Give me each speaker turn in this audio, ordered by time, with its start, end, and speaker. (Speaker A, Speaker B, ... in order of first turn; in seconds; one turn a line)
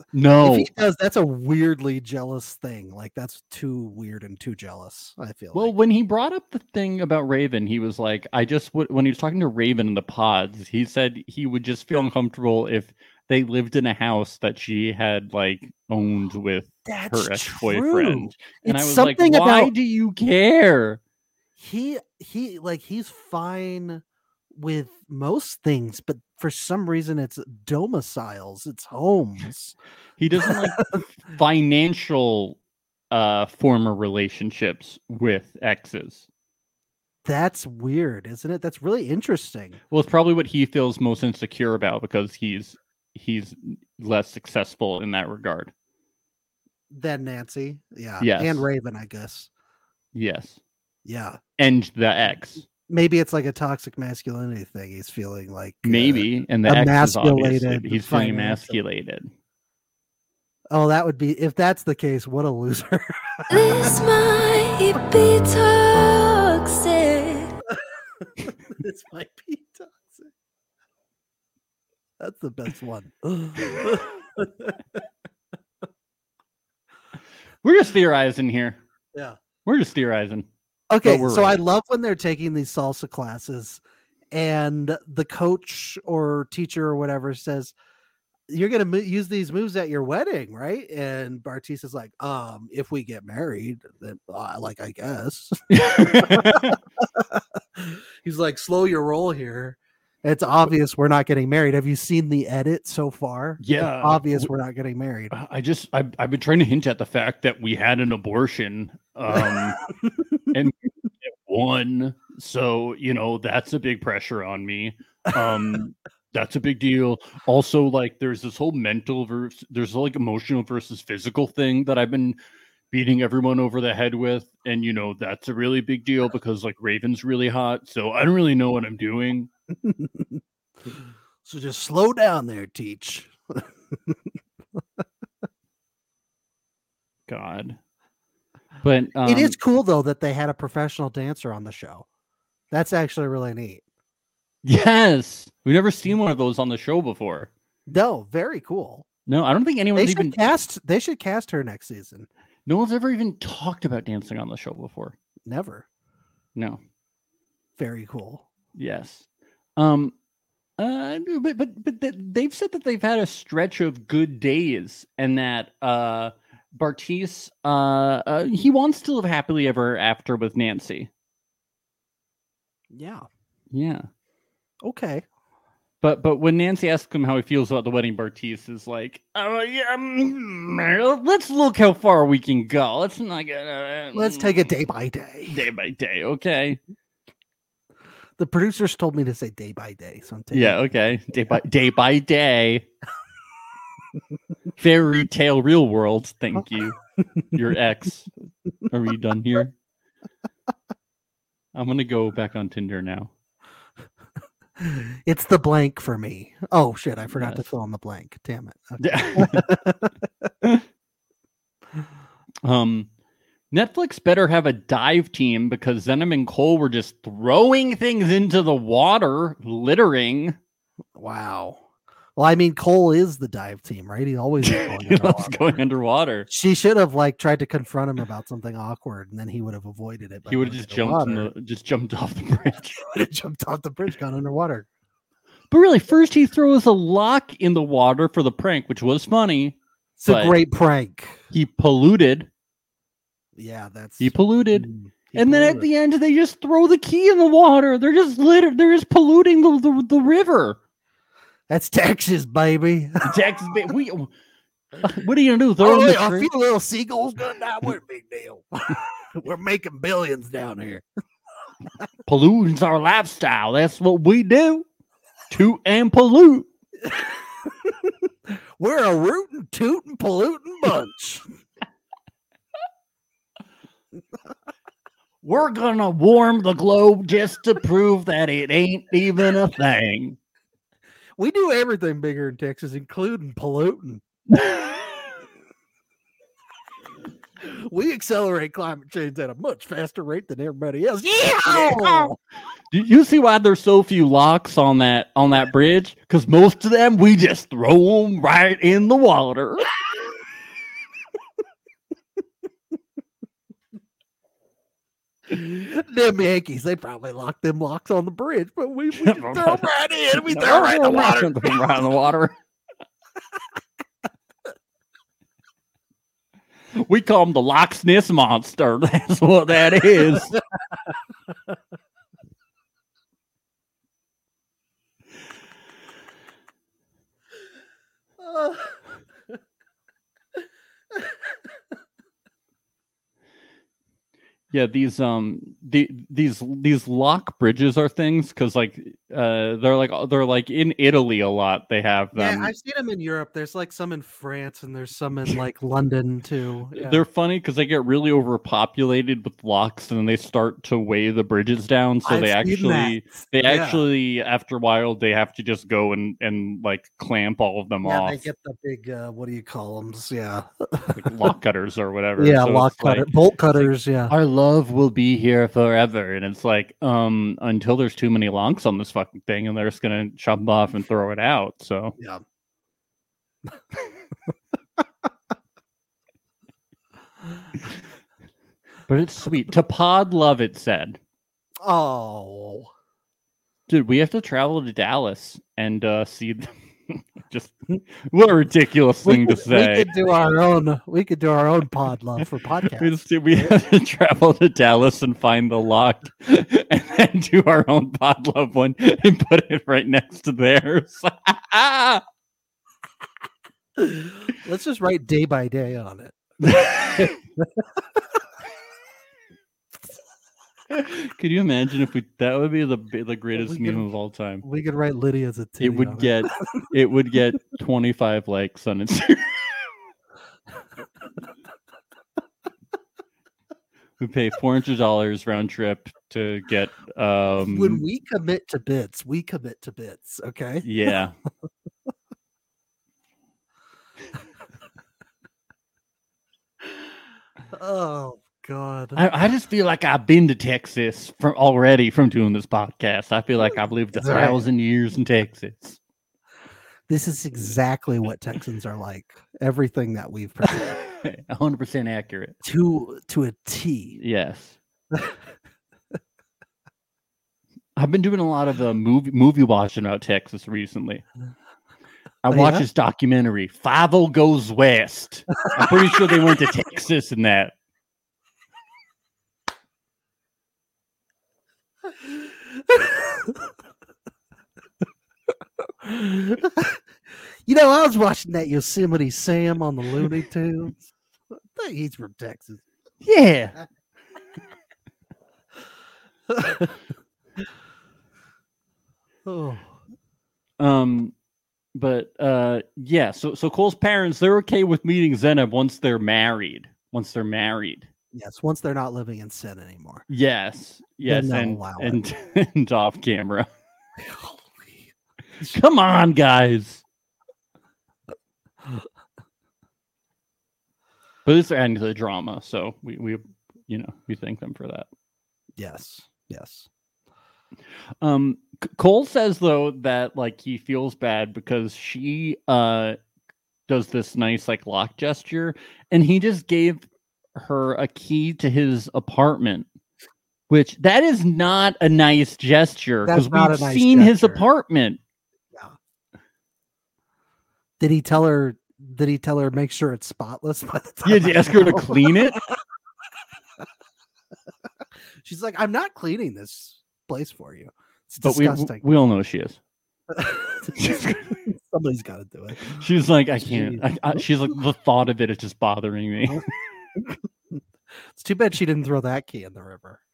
Speaker A: 0.1-0.7
Speaker B: 0.4-5.7
Speaker A: 5.5-21.0
Speaker B: 16.9-19.7
Speaker B: 21.6-24.0
Speaker B: 24.5-29.8
Speaker A: 30.2-32.6
Speaker B: 30.4-31.0
Speaker A: 33.1-36.3
Speaker B: 37.2-39.8
Speaker A: 39.9-45.7
Speaker B: 46.9-49.5
Speaker A: 48.2-48.7
Speaker A: 50.1-50.6
Speaker B: 51.0-51.4
Speaker A: 51.6-52.6
Speaker B: 52.8-58.8
Speaker A: 55.8-59.3
Speaker B: 60.7-64.0
Speaker C: 63.5-67.5
Speaker B: 68.4-70.3
Speaker B: 72.2-75.0
Speaker A: 77.6-78.8
Speaker A: 79.6-80.5
Speaker B: 80.9-87.7
Speaker A: 81.0-81.6
Speaker B: 88.5-105.3
Speaker A: 95.7-96.8
Speaker A: 103.6-104.5
Speaker A: 105.3-109.8
Speaker B: 109.3-110.2
Speaker A: 110.5-122.4
Speaker A: 122.9-129.5
Speaker B: 129.8-130.4
Speaker B: 131.4-134.2
Speaker A: 137.3-137.8
Speaker A: 138.8-139.6
Speaker B: 139.2-142.0
Speaker B: 142.7-143.8
Speaker A: 144.6-147.5
Speaker B: 147.9-149.1
Speaker A: 149.3-150.4
Speaker B: 149.9-152.3
Speaker A: 152.7-155.1
Speaker B: 155.4-155.8
Speaker B: 157.8-158.4
Speaker A: 158.8-159.2
Speaker A: 159.8-160.1
Speaker A: 160.8-171.1
Speaker B: 172.9-173.2
Speaker A: 173.7-174.1
Speaker B: 174.8-175.2
Speaker A: 176.0-184.7
Speaker B: 184.1-185.6
Speaker A: 185.5-186.8
Speaker B: 188.4-190.8
Speaker A: 190.5-192.9
Speaker A: 194.8-196.9
Speaker A: 197.5-198.3
Speaker A: 198.9-199.7
Speaker A: 201.7-203.3
Speaker B: 204.8-210.2
Speaker A: 207.3-207.7
Speaker A: 209.0-209.7
Speaker A: 212.6-213.1
Speaker A: 213.7-220.6
Speaker B: 221.1-221.8
Speaker B: 222.3-225.7
Speaker A: 224.6-226.5
Speaker B: 226.5-231.5
Speaker A: 230.5-233.1
Speaker B: 233.0-234.9
Speaker A: 235.7-240.6
Speaker B: 240.2-241.4
Speaker A: 241.5-242.5
Speaker B: 243.6-245.9
Speaker A: 244.2-250.8
Speaker B: 251.7-253.4
Speaker A: 253.2-254.3
Speaker A: 255.0-256.5
Speaker B: 255.8-261.1
Speaker A: 262.2-264.9
Speaker A: 265.5-266.7
Speaker B: 267.0-271.4
Speaker A: 275.4-280.4
Speaker B: 281.4-284.2
Speaker A: 284.5-284.9
Speaker B: 287.6-292.4
Speaker A: 291.6-292.3
Speaker A: 292.9-299.9
Speaker B: 305.5-311.8
Speaker A: 309.2-312.6
Speaker A: 317.0-320.6
Speaker B: 328.4-328.8
Speaker A: 334.7-342.7
Speaker B: 342.3-347.2
Speaker A: 346.9-358.4
Speaker B: 352.2-354.0
Speaker B: 358.0-361.3
Speaker A: 361.1-372.1
Speaker B: 362.4-364.3
Speaker A: 379.1-381.2
Speaker B: 381.8-382.9
Speaker A: 383.9-390.1
Speaker B: 389.2-393.8
Speaker A: 393.0-402.2
Speaker B: 404.0-408.0
Speaker A: 406.6-407.3
Speaker A: 410.9-414.6
Speaker B: 413.5-414.1
Speaker B: 414.6-416.3
Speaker A: 415.8-419.6
Speaker A: 424.2-428.0
Speaker B: 427.6-431.1
Speaker A: 430.8-431.3
Speaker B: 437.7-439.2
Speaker A: 439.1-446.0
Speaker B: 444.1-444.7
Speaker B: 447.1-450.9
Speaker A: 450.7-452.6
Speaker B: 452.6-454.2
Speaker A: 454.2-454.8
Speaker A: 457.9-461.2
Speaker A: 462.4-467.7
Speaker B: 462.5-462.9
Speaker B: 472.4-473.7
Speaker B: 476.0-477.0
Speaker B: 477.6-481.0
Speaker B: 481.6-482.8
Speaker A: 483.2-483.8
Speaker B: 486.5-487.0
Speaker B: 489.4-489.9
Speaker A: 490.8-491.3
Speaker A: 491.9-498.1
Speaker B: 498.3-500.2
Speaker A: 500.3-503.7
Speaker B: 501.2-502.2
Speaker B: 504.2-505.1
Speaker A: 505.6-507.0
Speaker A: 511.4-515.1
Speaker B: 515.8-516.9
Speaker A: 518.2-523.2
Speaker A: 523.9-527.0
Speaker A: 527.5-529.9
Speaker A: 530.7-535.2
Speaker B: 533.2-534.7
Speaker B: 538.0-542.8
Speaker A: 541.2-542.6
Speaker B: 545.4-549.0
Speaker A: 548.4-549.8
Speaker B: 550.3-553.0
Speaker A: 550.9-551.5
Speaker A: 552.9-556.6
Speaker B: 553.6-554.4
Speaker B: 557.1-557.8
Speaker B: 558.3-560.2